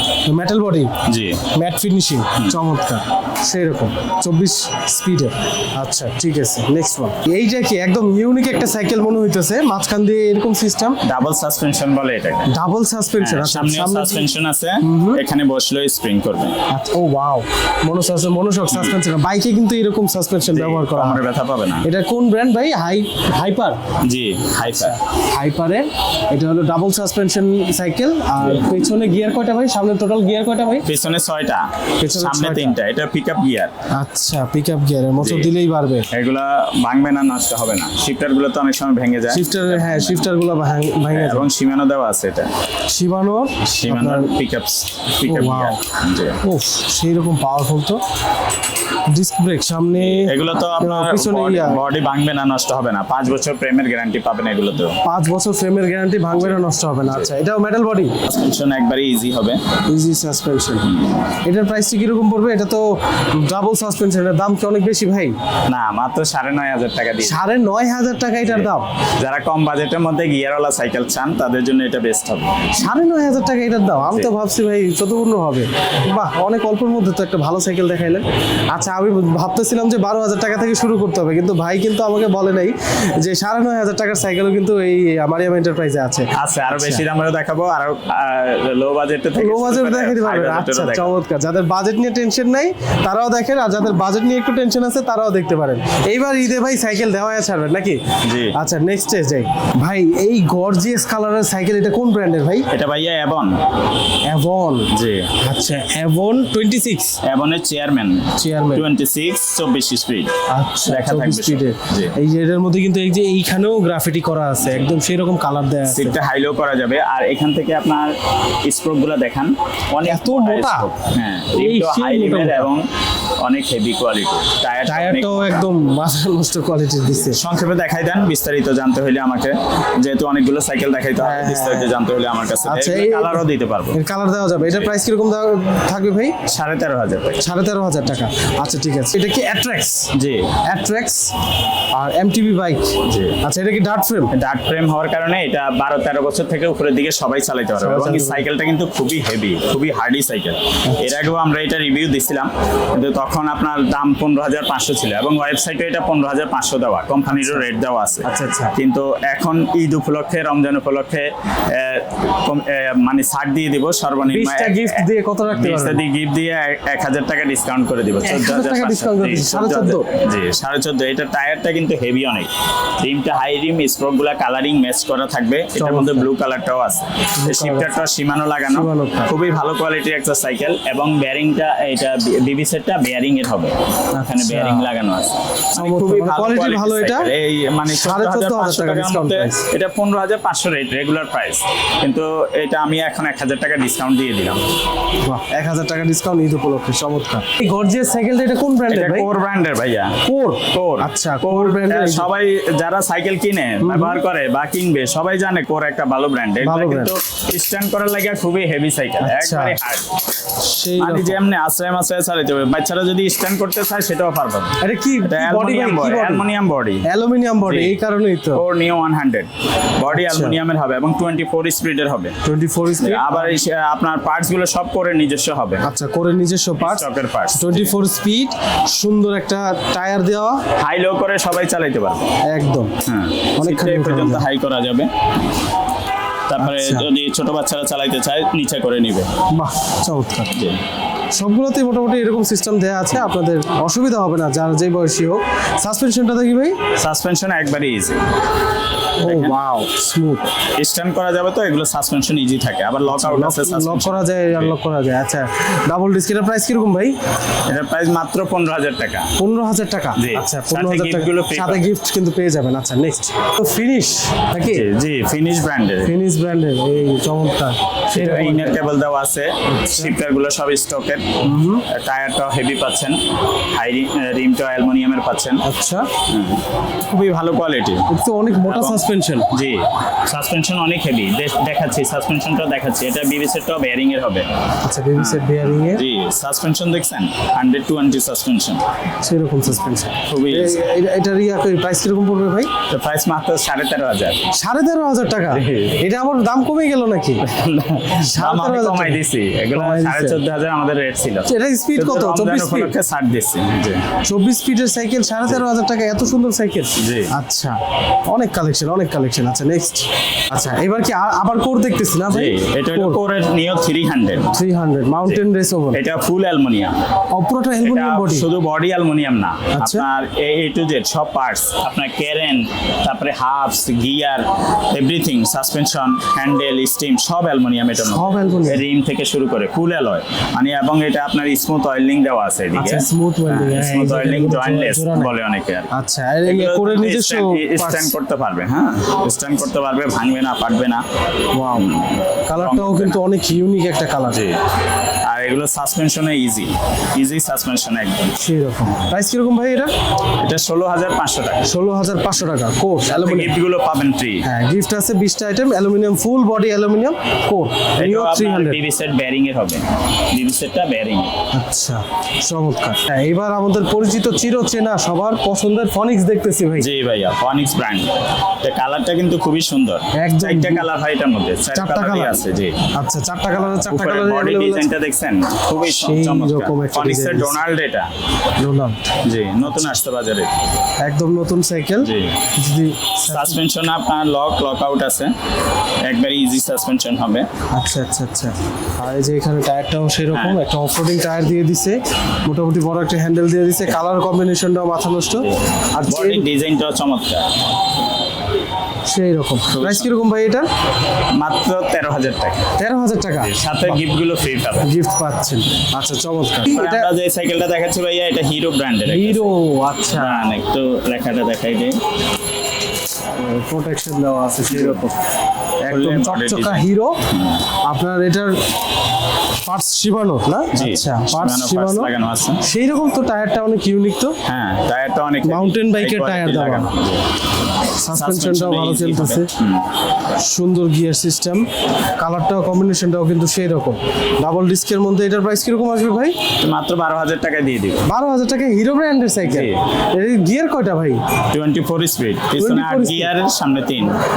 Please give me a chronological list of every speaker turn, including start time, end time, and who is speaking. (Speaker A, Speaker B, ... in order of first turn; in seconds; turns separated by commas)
Speaker A: 0.3-0.9, Speaker B: 1.1-1.5, Speaker A: 1.5-11.0, Speaker B: 11.0-12.5, Speaker A: 12.5-14.3, Speaker B: 13.2-16.6, Speaker A: 14.8-15.2, Speaker A: 16.7-21.2, Speaker B: 18.7-19.0, Speaker B: 20.5-21.9, Speaker A: 21.8-23.8, Speaker B: 24.0-25.0, Speaker A: 24.7-30.9, Speaker B: 28.4-28.8, Speaker B: 30.9-33.7, Speaker A: 32.0-32.8, Speaker A: 33.9-36.1, Speaker B: 35.2-35.5, Speaker B: 36.1-40.3, Speaker A: 39.3-41.5, Speaker B: 41.1-42.5, Speaker A: 42.9-44.3, Speaker B: 43.6-46.4, Speaker A: 45.2-45.8, Speaker A: 46.4-48.0, Speaker A: 49.1-51.8, Speaker B: 50.0-55.0, Speaker A: 55.0-58.2, Speaker B: 56.4-57.3, Speaker B: 58.3-59.6, Speaker A: 59.9-65.4, Speaker B: 60.9-61.2, Speaker B: 65.7-67.4, Speaker A: 67.2-68.9, Speaker B: 68.4-72.6, Speaker A: 72.7-87.0, Speaker B: 86.3-91.2, Speaker A: 89.4-102.7, Speaker B: 98.2-98.5, Speaker B: 102.7-103.6, Speaker A: 104.2-104.9, Speaker B: 104.9-105.3, Speaker A: 105.4-107.2, Speaker B: 107.2-112.2, Speaker A: 108.4-108.9, Speaker A: 110.5-116.2, Speaker B: 115.9-122.9, Speaker A: 120.0-120.9, Speaker A: 121.5-122.7, Speaker B: 123.4-125.6, Speaker A: 124.9-127.4, Speaker B: 127.2-134.0, Speaker A: 131.2-131.9, Speaker A: 132.7-136.4, Speaker B: 134.6-134.9, Speaker B: 136.5-137.4, Speaker A: 137.4-140.1, Speaker B: 140.1-140.6, Speaker A: 140.6-141.3, Speaker A: 141.9-144.3, Speaker B: 143.1-143.4, Speaker B: 144.3-194.6, Speaker A: 147.8-148.4, Speaker A: 150.8-151.2, Speaker A: 157.4-157.6, Speaker A: 158.2-158.8, Speaker A: 164.2-166.0, Speaker A: 168.2-170.1, Speaker A: 175.8-176.3, Speaker A: 177.4-177.9, Speaker A: 178.7-179.3, Speaker A: 184.1-184.9, Speaker A: 185.8-187.3, Speaker A: 187.9-189.7, Speaker A: 195.2-199.3, Speaker B: 198.9-200.2, Speaker A: 200.2-202.3, Speaker B: 200.7-210.2, Speaker A: 203.8-204.2, Speaker A: 206.6-207.1, Speaker A: 209.2-209.8, Speaker A: 210.6-211.4, Speaker B: 211.0-217.1, Speaker A: 214.8-216.5, Speaker A: 217.0-218.6, Speaker B: 217.6-218.0, Speaker B: 218.5-222.4, Speaker A: 220.1-220.6, Speaker A: 222.4-223.6, Speaker B: 223.0-225.8, Speaker A: 225.8-230.6, Speaker B: 226.8-227.9, Speaker B: 230.8-232.3, Speaker A: 232.5-232.9, Speaker B: 233.0-235.1, Speaker A: 233.6-234.4, Speaker B: 236.5-239.3, Speaker A: 236.6-237.1, Speaker A: 239.5-240.6, Speaker B: 240.5-240.8, Speaker A: 241.3-246.8, Speaker B: 247.0-248.2, Speaker A: 249.2-250.5, Speaker B: 249.2-249.6, Speaker B: 250.8-254.8, Speaker A: 253.1-257.1, Speaker B: 257.7-259.3, Speaker A: 259.4-264.9, Speaker B: 260.2-261.8, Speaker B: 264.6-266.1, Speaker A: 266.0-268.8, Speaker B: 268.1-275.6, Speaker A: 269.7-270.1, Speaker A: 271.4-271.8, Speaker A: 275.6-276.1, Speaker B: 276.3-278.1, Speaker A: 278.1-279.5, Speaker B: 278.6-284.5, Speaker A: 284.8-286.0, Speaker B: 285.2-288.8, Speaker A: 289.2-292.7, Speaker B: 290.3-290.8, Speaker B: 292.9-294.4, Speaker A: 294.5-297.5, Speaker B: 295.5-296.0, Speaker B: 297.4-304.1, Speaker A: 298.2-299.2, Speaker A: 299.7-300.4, Speaker A: 301.5-302.9, Speaker A: 304.2-313.2, Speaker B: 307.0-307.3, Speaker B: 312.3-314.5, Speaker A: 314.5-316.0, Speaker B: 315.9-316.9, Speaker A: 317.3-318.5, Speaker B: 317.8-335.9, Speaker A: 319.7-320.1, Speaker A: 328.0-328.8, Speaker A: 332.8-335.3, Speaker A: 335.9-338.1, Speaker B: 336.5-341.1, Speaker A: 341.5-341.9, Speaker B: 341.7-343.2, Speaker A: 342.5-344.4, Speaker B: 344.3-344.6, Speaker B: 345.2-348.4, Speaker A: 348.4-349.9, Speaker B: 350.4-351.7, Speaker A: 351.6-353.6, Speaker B: 353.1-354.4, Speaker A: 354.4-358.8, Speaker B: 358.0-361.4, Speaker A: 361.5-366.9, Speaker B: 366.8-372.9, Speaker A: 370.1-370.9, Speaker A: 371.7-372.4, Speaker A: 372.9-374.9, Speaker B: 373.6-378.1, Speaker A: 375.9-377.6, Speaker A: 378.6-379.0, Speaker B: 379.2-380.6, Speaker A: 381.0-383.6, Speaker B: 382.0-382.4, Speaker B: 383.3-385.4, Speaker B: 386.0-387.5, Speaker A: 387.7-396.5, Speaker B: 390.3-390.6, Speaker B: 395.4-397.6, Speaker A: 399.1-400.7, Speaker B: 399.7-400.1, Speaker B: 401.4-402.7, Speaker A: 402.8-404.0, Speaker B: 403.4-404.9, Speaker A: 404.8-407.1, Speaker B: 406.7-409.5, Speaker A: 409.1-410.5, Speaker B: 410.1-412.0, Speaker A: 413.4-415.2, Speaker B: 414.7-415.1, Speaker B: 415.9-417.6, Speaker A: 415.9-417.2, Speaker A: 417.8-418.6, Speaker A: 419.7-424.4, Speaker B: 420.7-422.6, Speaker B: 424.4-427.3, Speaker A: 425.4-426.9, Speaker A: 428.0-429.5, Speaker B: 428.1-429.9, Speaker A: 430.4-431.6, Speaker A: 432.2-436.4, Speaker B: 436.6-438.1, Speaker A: 438.1-441.2, Speaker B: 439.4-439.8, Speaker B: 441.5-444.1, Speaker A: 442.6-443.3